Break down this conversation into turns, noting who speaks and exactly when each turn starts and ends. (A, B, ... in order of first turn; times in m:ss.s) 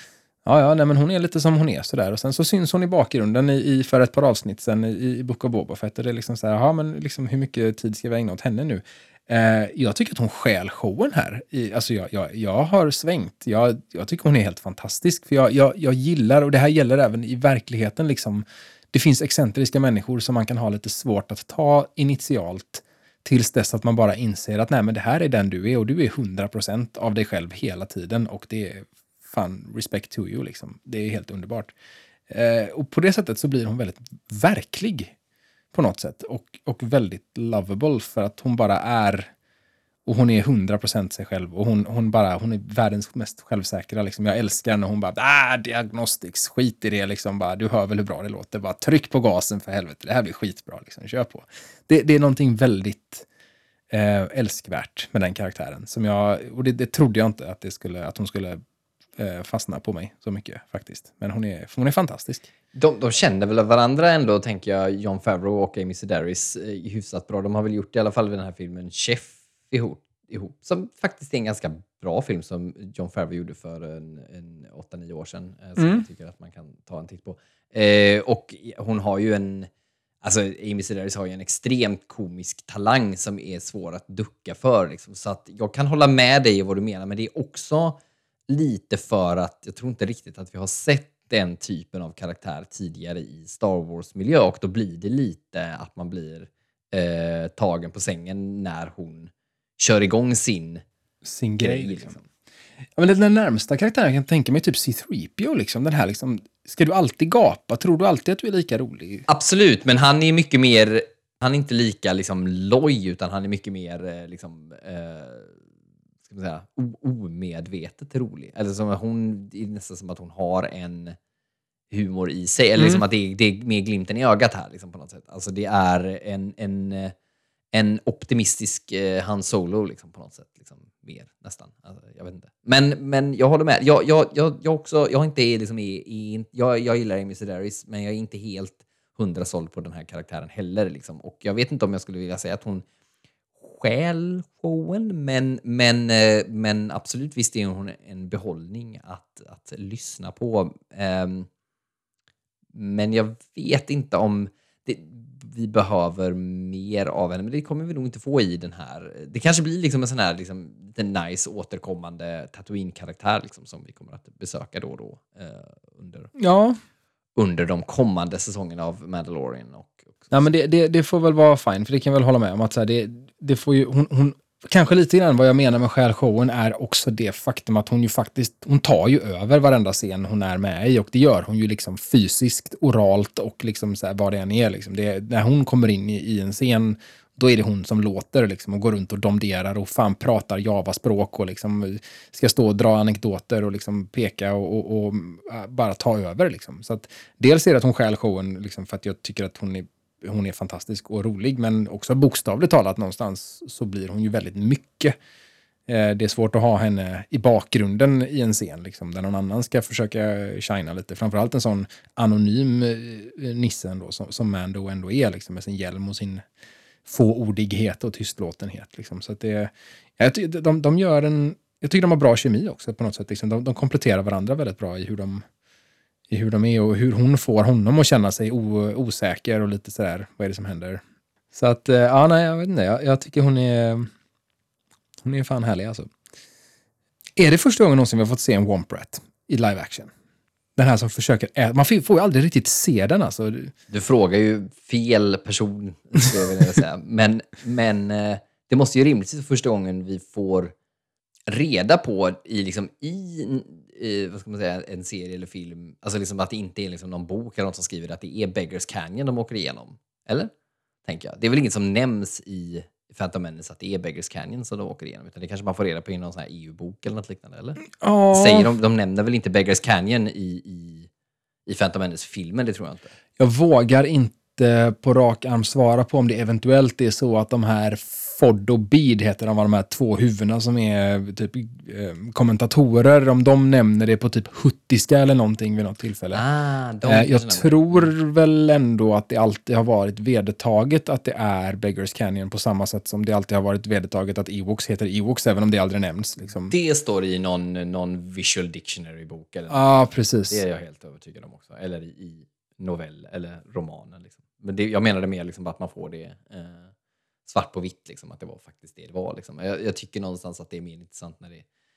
0:00.4-0:31.7 A
0:32.3-0:35.1 A
0:35.7-0:39.3 A
0:40.0-0:53.2 A
0:53.9-0:58.6 A
0:59.2-1:02.4 A
1:02.7-1:19.7 B
1:15.8-1:16.0 A
1:20.2-1:40.8 B
1:41.2-1:42.1 A
1:41.6-1:42.2 B
1:43.0-1:49.2 A
1:49.3-1:55.6 B
1:56.3-2:01.2 B
2:01.9-2:07.1 B
2:02.8-2:03.0 A
2:07.7-2:22.8 B
2:23.6-2:31.5 B
2:32.7-2:46.3 B
2:46.4-2:46.8 A
2:47.4-2:50.5 B
2:50.3-3:25.1 A
3:25.9-3:36.4 A
3:37.0-3:45.4 A
3:46.3-3:51.0 A
3:51.5-3:54.1 A
3:55.2-3:56.1 A
3:57.4-4:00.1 A
4:00.8-4:03.7 A
4:03.9-4:10.7 B
4:11.5-4:20.5 B
4:21.0-4:31.1 B
4:28.0-4:28.7 A
4:31.6-4:33.1 B
4:33.4-4:46.4 A
4:46.3-4:48.1 B
4:47.0-4:56.7 A
4:56.7-5:06.9 B
4:59.7-5:00.6 A
5:07.5-5:11.6 B